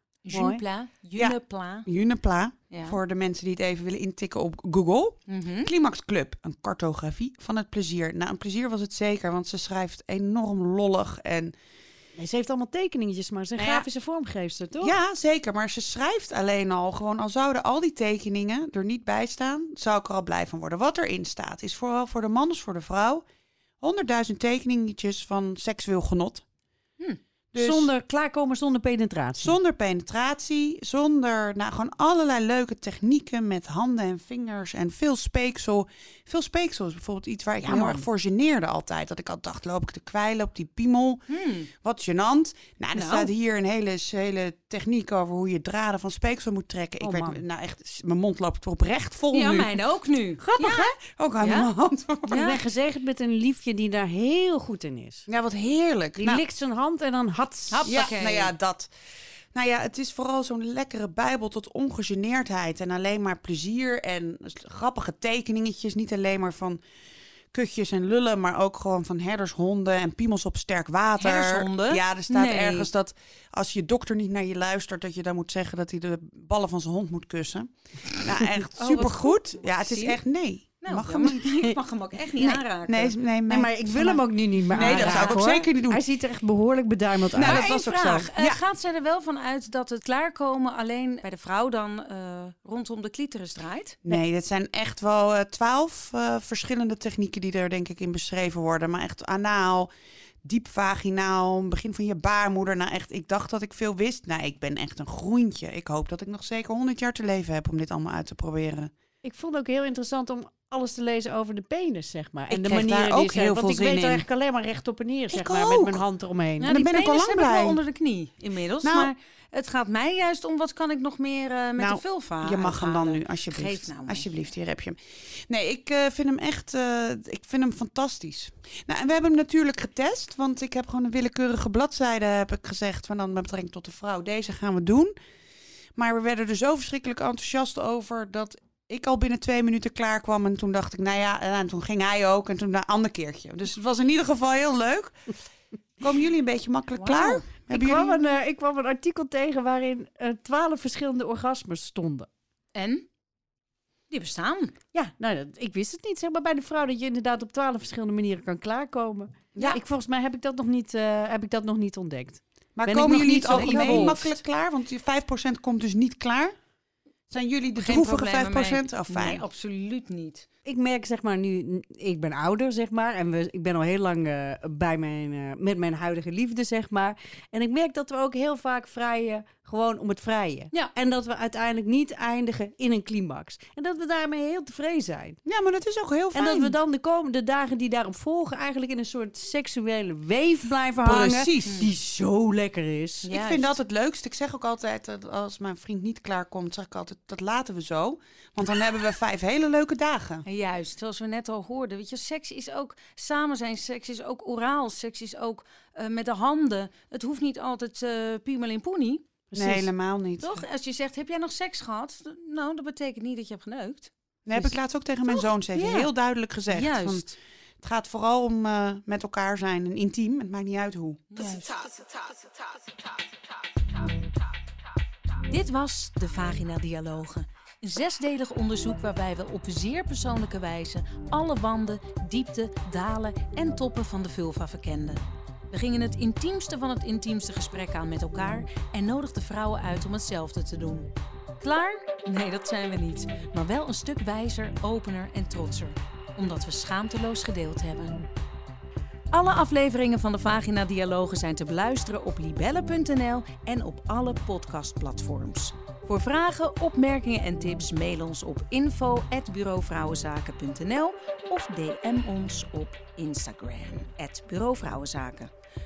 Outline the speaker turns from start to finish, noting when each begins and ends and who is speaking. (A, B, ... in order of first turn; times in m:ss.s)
0:00.2-0:01.9 A
0:00.3-0:00.6 B
0:01.2-0:11.5 C
0:02.7-0:03.0 A
0:05.3-0:05.7 A
0:12.2-0:15.0 B
0:14.8-0:23.2 C
0:23.8-0:26.4 C
0:27.5-0:27.9 C
0:27.6-0:29.6 B
0:29.4-0:41.2 C
0:37.6-0:38.1 B
0:41.3-0:41.7 A
0:41.8-0:49.7 C
0:42.9-0:43.3 A
0:47.0-0:47.4 B
0:49.3-0:51.7 A
0:50.4-0:52.4 C
0:52.3-0:55.3 B
0:52.3-0:52.6 A
0:55.3-0:56.4 C
0:56.2-0:57.9 B
0:57.7-0:58.5 A
0:57.8-0:58.9 C
0:59.5-1:06.8 C
1:07.5-1:21.7 C
1:11.2-1:12.9 A
1:18.8-1:20.2 A
1:20.8-1:23.2 A
1:22.4-1:26.0 C
1:23.5-1:27.7 B
1:24.7-1:25.4 A
1:27.3-1:28.6 C
1:27.4-1:34.0 A
1:34.0-1:39.9 C
1:40.4-1:48.9 C
1:49.2-1:56.7 B
1:52.5-1:54.2 C
1:55.3-1:56.0 C
1:56.6-2:04.4 A
1:56.7-1:57.8 C
1:58.8-1:59.1 C
2:01.8-2:15.1 C
2:16.0-2:25.3 C
2:26.0-2:28.2 C
2:26.9-2:27.4 A
2:27.7-2:32.3 B
2:32.7-2:33.0 A
2:34.1-2:34.7 A
2:34.9-2:44.2 B
2:42.8-2:46.5 C
2:43.0-2:44.3 A
2:47.3-2:49.4 C
2:47.8-2:50.5 A
2:50.6-3:05.4 B
3:05.4-3:06.8 C
3:06.3-3:13.3 B
3:11.0-3:11.9 C
3:13.2-3:20.4 C
3:13.3-3:13.8 A
3:20.4-3:29.3 A
3:29.5-3:29.9 B
3:29.5-3:30.6 C
3:30.4-3:34.1 A
3:34.4-3:37.3 C
3:35.7-3:36.1 A
3:36.7-3:37.3 A
3:37.8-3:41.3 C
3:41.3-3:42.1 A
3:45.5-3:55.2 A
3:55.7-4:08.2 A
4:09.3-4:25.5 A